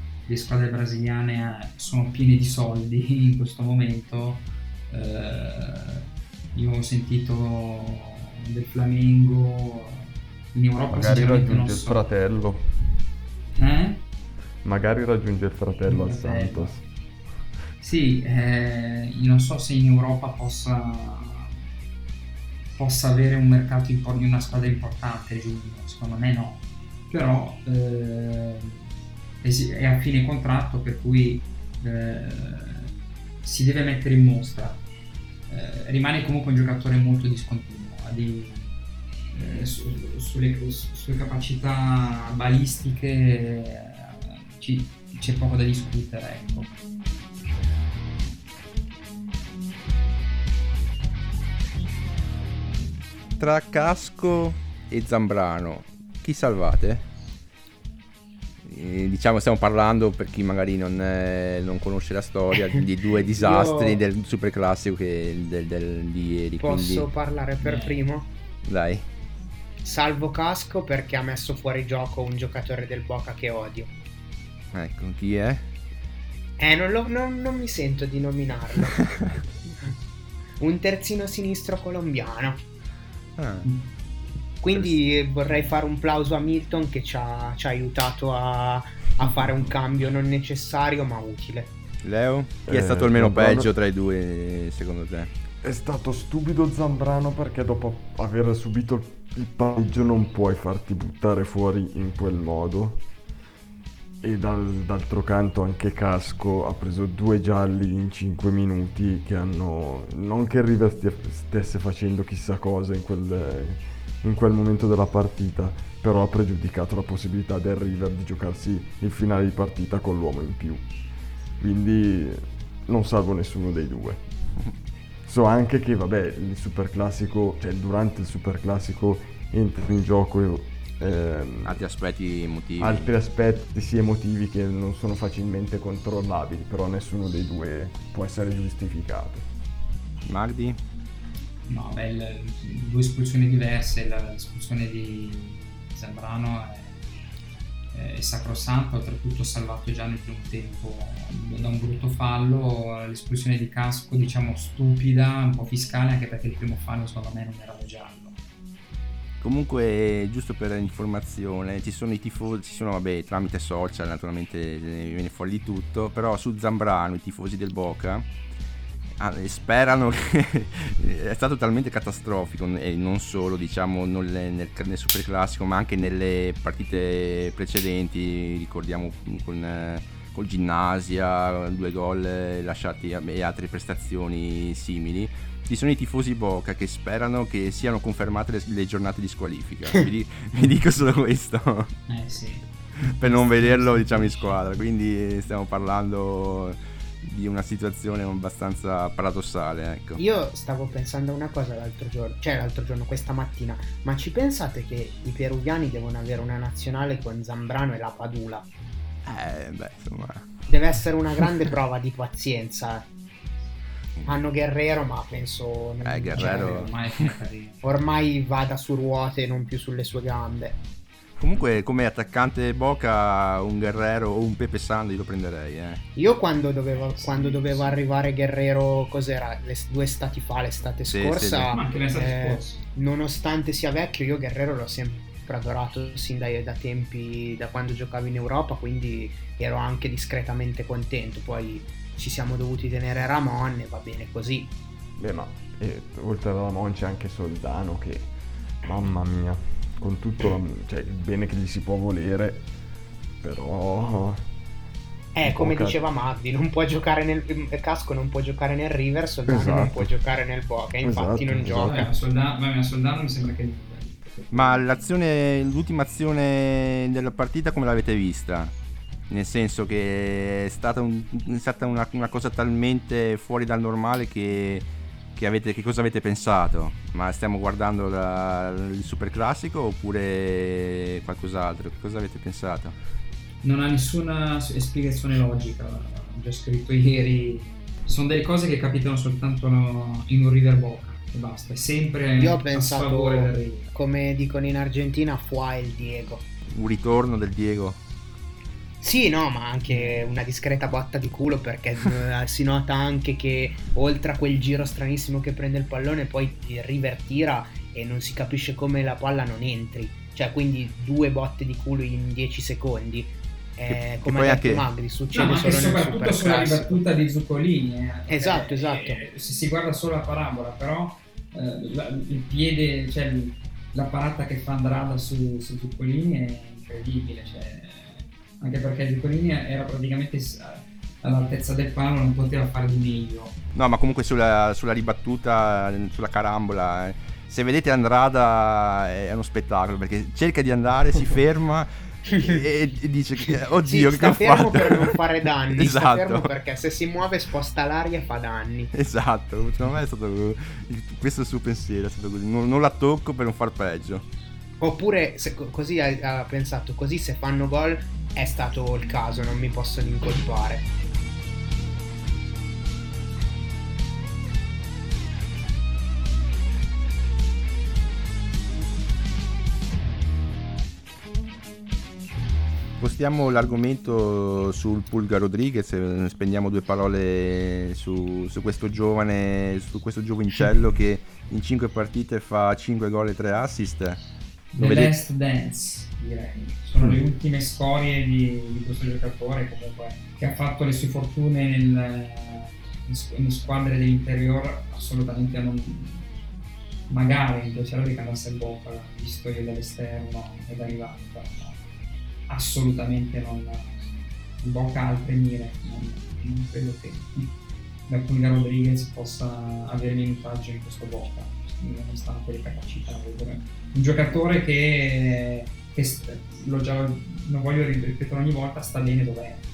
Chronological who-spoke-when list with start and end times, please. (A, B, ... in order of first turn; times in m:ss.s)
0:00.3-0:12.0 A
0:10.9-0:13.0 B
0:13.6-0:14.0 A
0:14.6-0:16.8 B
0:15.9-0:16.8 A
0:17.8-0:21.5 A
0:22.8-0:28.9 A
0:29.4-0:32.9 A
0:33.4-0:34.8 A
0:35.5-0:38.7 A
0:39.3-0:46.7 A
0:53.4-0:57.0 C
0:58.6-1:07.1 C
1:03.4-1:04.0 D
1:06.6-1:08.3 D
1:07.6-1:08.0 A
1:08.6-1:09.1 C
1:09.8-1:13.9 D
1:14.7-1:15.7 C
1:16.6-1:19.9 D
1:20.6-1:22.6 D
1:23.4-1:23.7 C
1:24.6-1:31.7 D
1:24.7-1:25.0 C
1:32.0-1:35.3 C
1:32.7-1:33.7 B
1:35.6-1:43.0 B
1:44.2-2:00.9 B
2:01.6-2:04.2 B
2:05.3-2:11.8 B
2:11.6-2:13.1 C
2:12.8-2:19.5 B
2:20.3-2:20.8 C
2:21.7-2:27.0 A
2:27.9-2:38.4 A
2:39.4-2:48.3 C
2:49.2-3:12.0 C
3:12.1-3:14.6 A
3:13.0-3:20.2 C
3:20.2-3:28.7 D
3:29.2-3:30.5 C
3:30.7-3:33.1 D
3:34.3-3:36.9 D
3:36.0-3:36.9 C
3:36.4-3:37.8 A
3:37.8-3:40.8 D
3:41.4-3:46.0 C
3:46.2-4:04.7 D
3:47.0-3:48.0 A
3:51.1-3:51.7 C
3:51.7-3:52.8 A
4:05.2-4:08.3 B
4:08.8-4:12.7 B
4:13.4-4:14.4 B
4:15.4-4:22.1 D
4:15.4-4:16.0 B
4:19.5-4:20.1 B
4:21.0-4:22.1 B
4:21.8-4:24.8 A
4:24.5-4:28.7 C
4:29.3-4:43.0 C
4:43.6-4:53.9 A
4:52.4-4:56.4 D
4:56.7-4:58.0 C
4:59.0-5:17.0 D
4:59.9-5:00.2 A
5:13.9-5:14.9 C
5:15.3-5:33.6 A
5:18.3-5:19.2 D
5:33.7-5:45.2 C
5:42.3-5:42.6 D
5:43.8-5:48.9 D
5:45.7-5:46.5 C
5:48.9-5:54.3 C
5:54.8-6:00.9 D
6:13.0-6:24.2 C
6:24.7-6:36.3 A
6:24.8-6:25.1 C
6:37.1-6:41.8 A
6:42.5-6:47.5 A
6:48.1-6:59.6 A